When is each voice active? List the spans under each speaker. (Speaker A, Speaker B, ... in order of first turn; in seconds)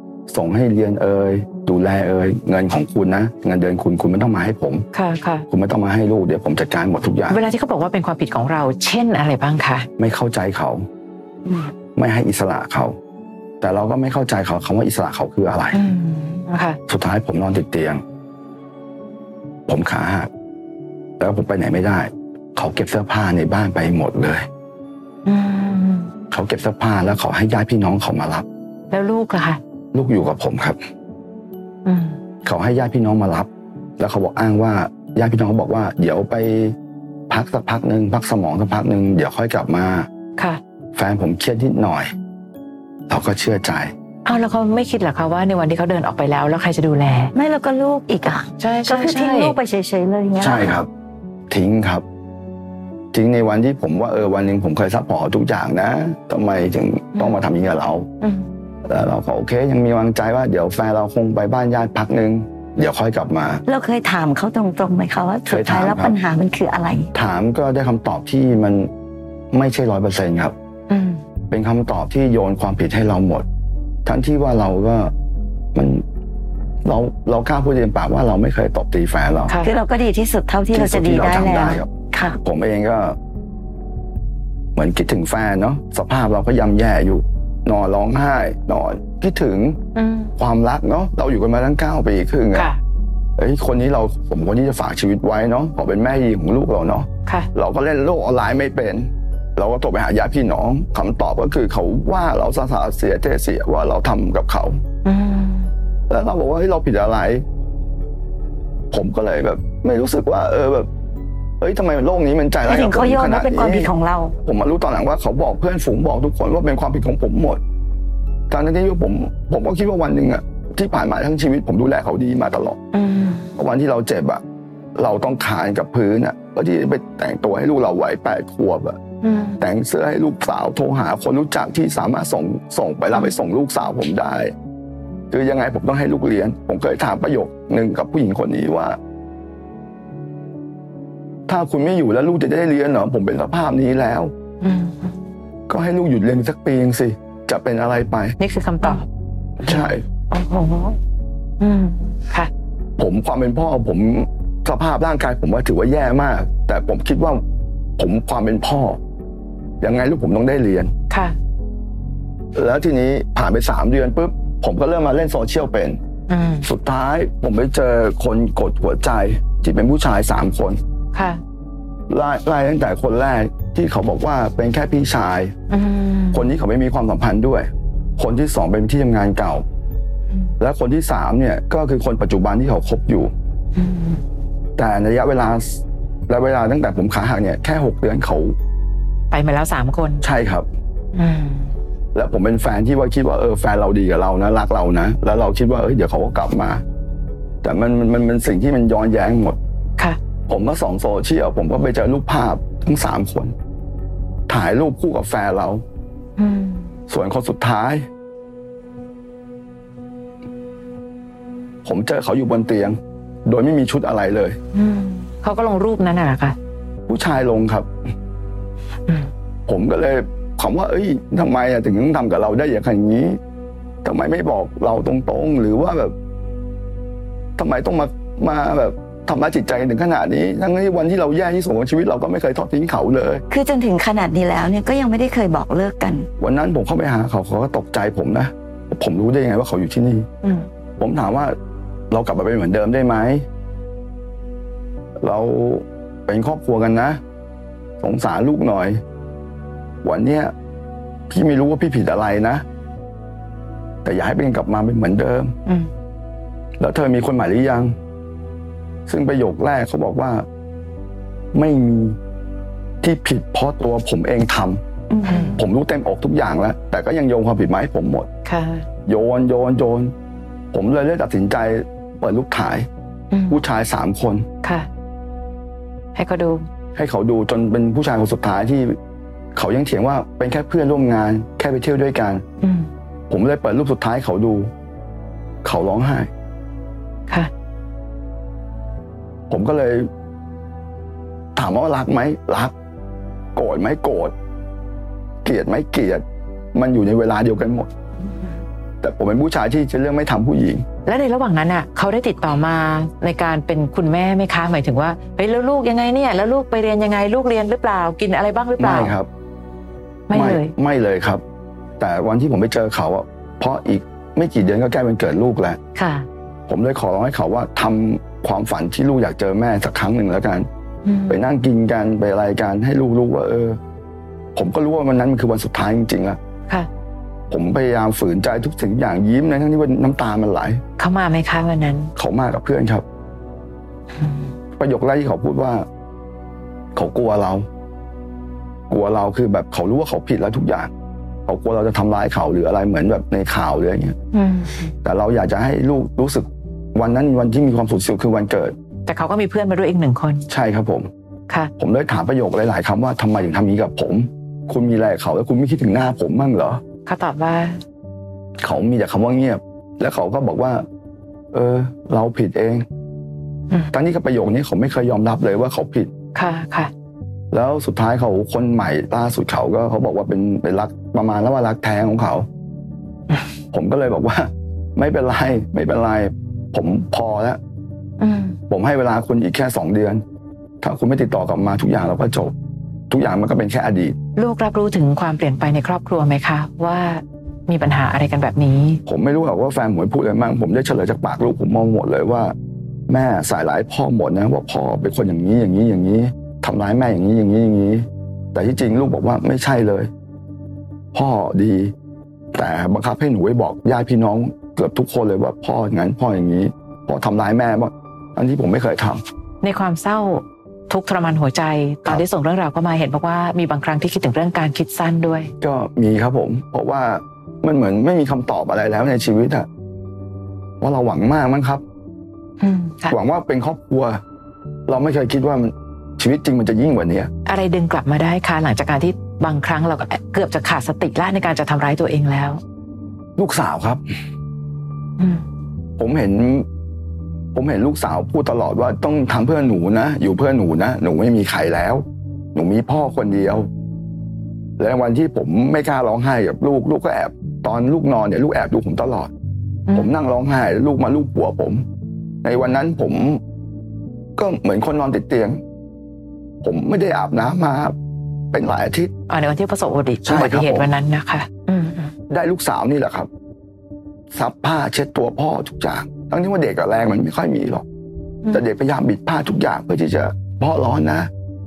Speaker A: 0.3-4.8, 5.5-7.4, 10.0-10.9, 11.9-13.0, 13.6-15.8, 16.9-18.0, 19.7-20.3, 21.2-24.4, 26.3-28.4, 29.9-30.8, 32.4-36.8, 37.3-40.1, 40.9-42.1, 43.1-43.9, 50.4-50.9, 51.5-52.0, 53.1-58.1, 58.9-63.6, 65.5-66.2, 67.1-68.9, 69.5-70.5, 71.5-73.5, 74.0-75.1, 75.7-76.0, 76.8-79.6, 80.7-81.9, 82.4-83.2, 84.8-89.8, 90.4-92.7, 93.4-104.8, 106.1-107.4, 108.9-110.9, 111.6-113.9, 114.4-117.6, 118.5-122.8, 123.6-124.4, 125.0-129.0, 129.6-134.5, 135.3-139.0, 141.5-144.3, 145.7-148.3, 149.6-150.0, 153.0-157.4, 158.0-159.0, 159.8-160.9, 162.6-166.0, 166.6-170.8, 172.1-175.6, 176.3-179.6, 180.6-183.3, 184.8-188.6, 190.2-190.7, 192.1-196.8, 197.6-199.6, 200.5-203.6, 204.5-205.8, 207.1-208.1, 211.8-214.6, 217.1-217.9, 219.7-223.4, 224.0-226.1, 227.6-233.4, 236.4-240.3, 241.0-241.6, 242.1-243.4, 245.2-247.2, 248.0-249.0, 250.0-250.5, 251.3-252.6, 254.0-255.5, 256.8-257.9, 259.1-260.4, 261.5-262.2, 263.0-264.8, 265.6-268.3, 269.1-270.1, 270.7-272.9, 273.5-274.4, 276.9-279.0, 279.6-282.4, 283.3-284.7, 285.6-286.3, 289.5-290.1, 291.6-292.7, 293.6-294.3, 295.4-297.9, 299.0-300.8, 308.8-309.3, 310.3-311.4, 312.0-315.8, 316.7-320.7, 321.3-323.8, 324.6-326.4, 327.5-330.8, 332.2-333.1, 334.8-335.9, 336.9-337.7, 338.9-340.9, 341.5-344.2, 345.0-348.8, 350.5-351.1, 351.8-356.8, 358.6-360.8, 361.5-362.8, 363.9-366.1, 367.5-372.5, 373.7-377.6, 378.7-380.2, 380.8-382.5, 383.1-384.2, 389.1-392.5, 393.1-400.1, 401.1-401.9, 402.5-409.2, 415.6-419.7, 420.8-421.8, 423.1-424.2, 424.9-427.3, 433.4-434.0, 436.0-436.7, 437.5-443.7, 444.8-449.3, 449.9-451.8, 452.4-453.4, 454.4-455.6, 456.6-457.9, 458.5-459.1, 460.2-460.9, 462.3-463.3, 464.3-467.8, 468.5-471.3
Speaker B: 4.9-5.5, 7.3-9.9, 15.7-16.8, 25.2-26.1, 28.9-29.6, 31.9-32.2, 44.2-47.3, 48.6-49.5, 57.1-57.4, 58.2-58.5, 70.9-71.2, 89.9-90.3, 92.5-92.8, 105.0-105.7, 122.9-123.5, 129.2-129.6, 144.6-145.2, 148.4-149.1, 151.6-152.5, 161.1-161.3, 166.3-166.7, 171.1-171.4, 175.7-176.5, 183.8-184.2, 189.3-190.2, 191.1-191.8, 206.4-206.9, 214.7-216.6, 265.3-265.6, 268.4-268.9, 273.3-273.6, 274.6-274.9, 276.1-276.6, 282.6-282.9, 301.1-309.2, 310.3-310.7, 315.9-316.3, 321.1-321.4, 331.0-332.1, 344.3-344.9, 349.1-350.4, 357.1-357.8, 366.3-366.9, 378.2-378.6, 384.4-389.0, 409.6-415.5, 422.6-423.1, 427.4-432.6, 435.2-435.5, 449.9-450.1, 459.3-462.1
Speaker C: 47.4-50.8, 63.7-67.1, 79.6-82.4, 112.6-114.4, 150.3-151.0, 233.5-236.3, 265.1-265.6